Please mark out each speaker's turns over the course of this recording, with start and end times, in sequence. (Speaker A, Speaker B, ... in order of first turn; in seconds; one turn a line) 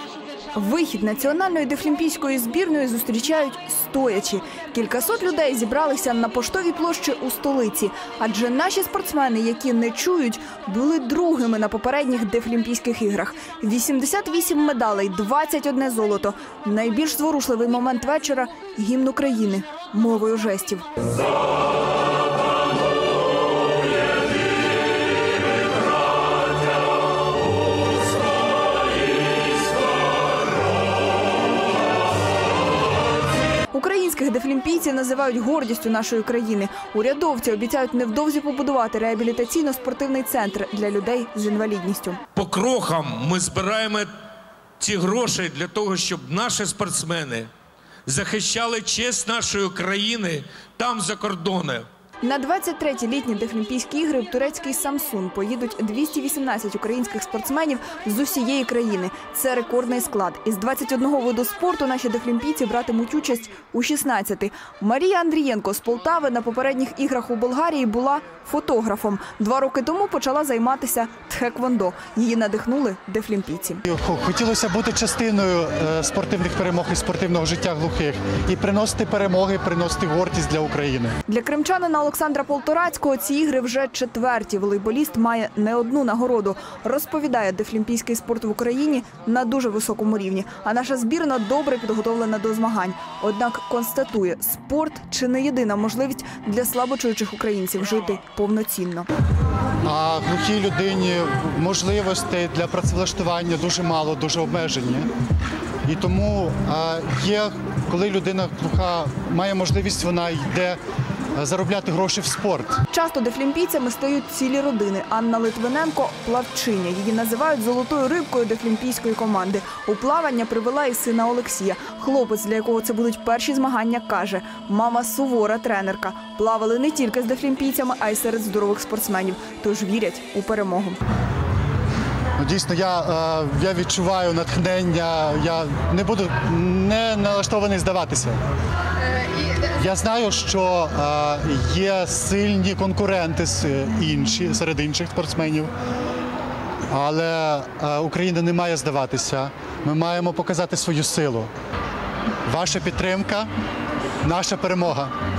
Speaker A: 0.6-20.9
Speaker A: 33.7-42.2
Speaker B: 42.4-44.1
Speaker B: 44.8-47.5
Speaker B: 48.1-51.9
Speaker A: 52.2-73.8
Speaker C: 73.8-81.2
Speaker A: 81.3-99.1
Speaker C: 99.8-105.1
Speaker C: 105.8-110.8
Speaker C: 111.3-112.8
Speaker A: 112.9-131.0
Speaker C: 132.4-138.4
Speaker C: 139.7-145.7
Speaker C: 146.9-151.5
Speaker C: 152.5-153.5
Speaker C: 154.2-155.1